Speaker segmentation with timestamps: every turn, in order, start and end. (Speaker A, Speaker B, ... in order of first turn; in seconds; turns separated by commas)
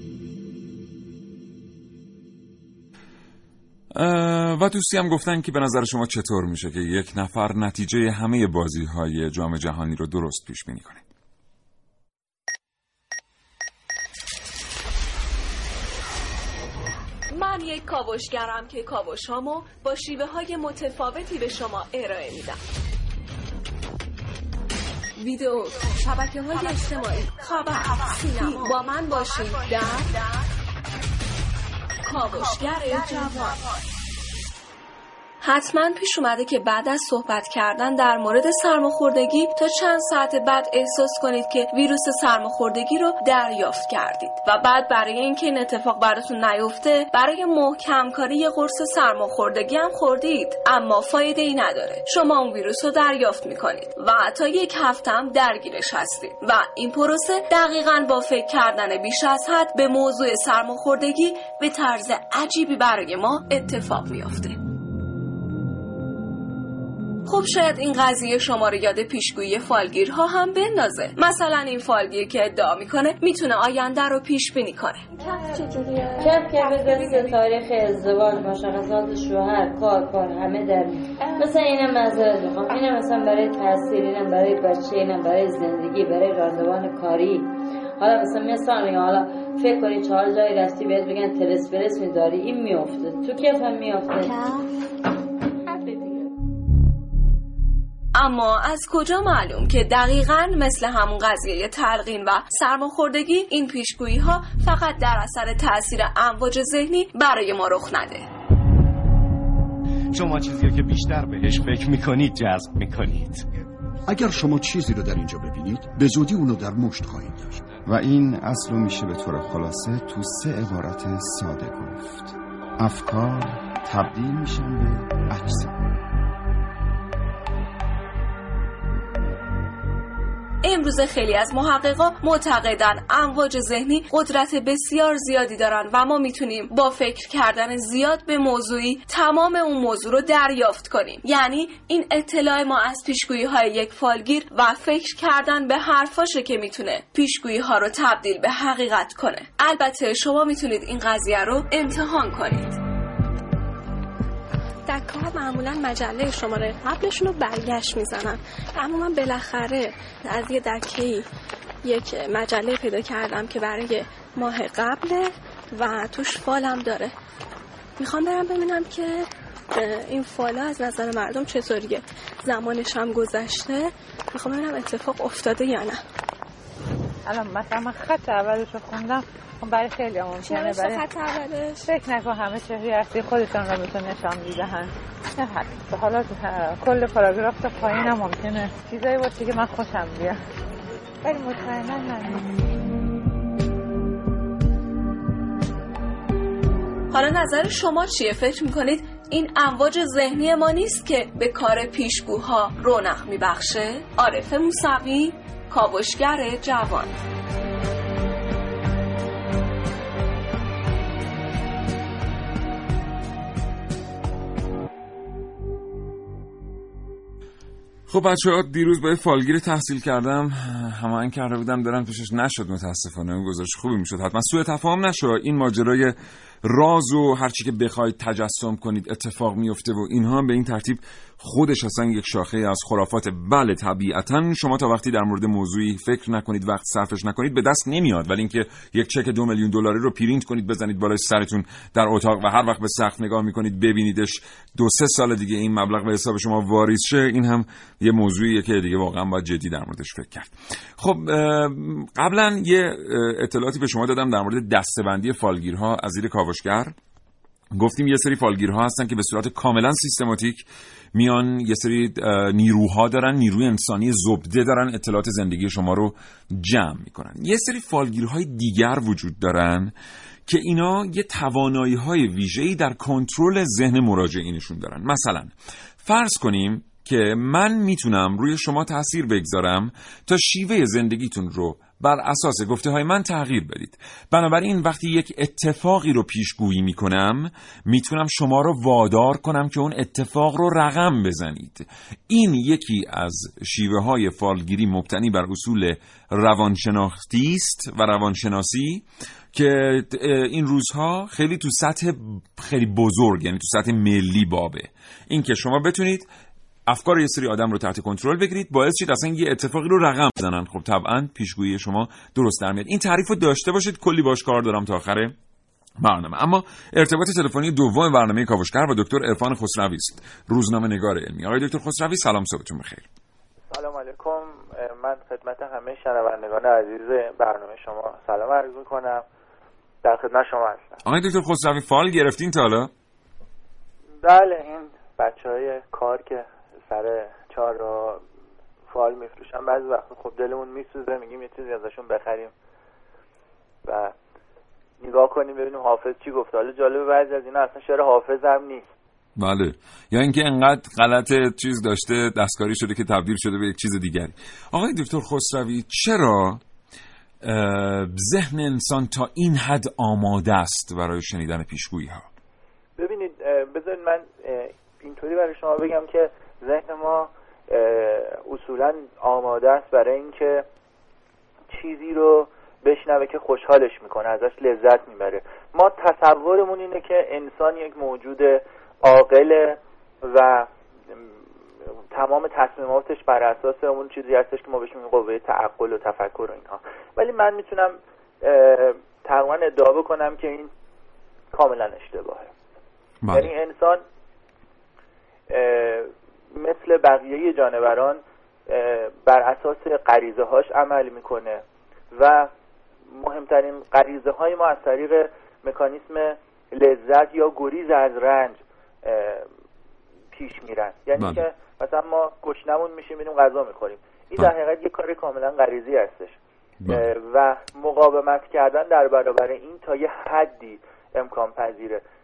Speaker A: 3.9-11.0, Speaker B: 17.3-22.6, Speaker B: 25.2-30.2, Speaker B: 32.1-33.6, Speaker B: 35.4-64.6, Speaker B: 67.2-75.1, Speaker C: 75.2-77.3, Speaker D: 75.4-76.1, Speaker E: 76.2-94.3, Speaker C: 81.2-81.5, Speaker B: 98.1-108.2, Speaker F: 110.1-113.5, Speaker F: 114.1-117.5, Speaker G: 114.1-117.6, Speaker H: 117.8-125.7, Speaker B: 130.6-152.8, Speaker D: 154.9-161.2, Speaker D: 161.8-167.1, Speaker D: 168.0-176.0, Speaker C: 177.2-181.0, Speaker D: 180.4-181.9, Speaker C: 181.8-190.4, Speaker C: 191.2-192.5, Speaker B: 197.1-207.1, Speaker A: 218.1-256.9, Speaker A: 257.7-269.9, Speaker A: 270.5-306.3, Speaker A: 306.9-315.3, Speaker A: 316.0-323.1, Speaker I: 323.7-329.2, Speaker I: 330.0-331.0, Speaker A: 331.0-332.9, Speaker I: 334.2-338.2, Speaker I: 338.9-342.5, Speaker I: 343.8-344.1, Speaker I: 345.0-348.9, Speaker A: 349.4-356.6, Speaker A: 357.4-362.3, Speaker I: 363.0-370.6, Speaker I: 371.7-381.3, Speaker I: 382.1-390.7, Speaker I: 391.5-392.5, Speaker A: 393.2-393.5, Speaker I: 393.3-394.0, Speaker I: 395.5-402.5, Speaker I: 403.1-409.5, Speaker I: 410.3-422.0, Speaker A: 411.1-411.4, Speaker A: 416.8-417.1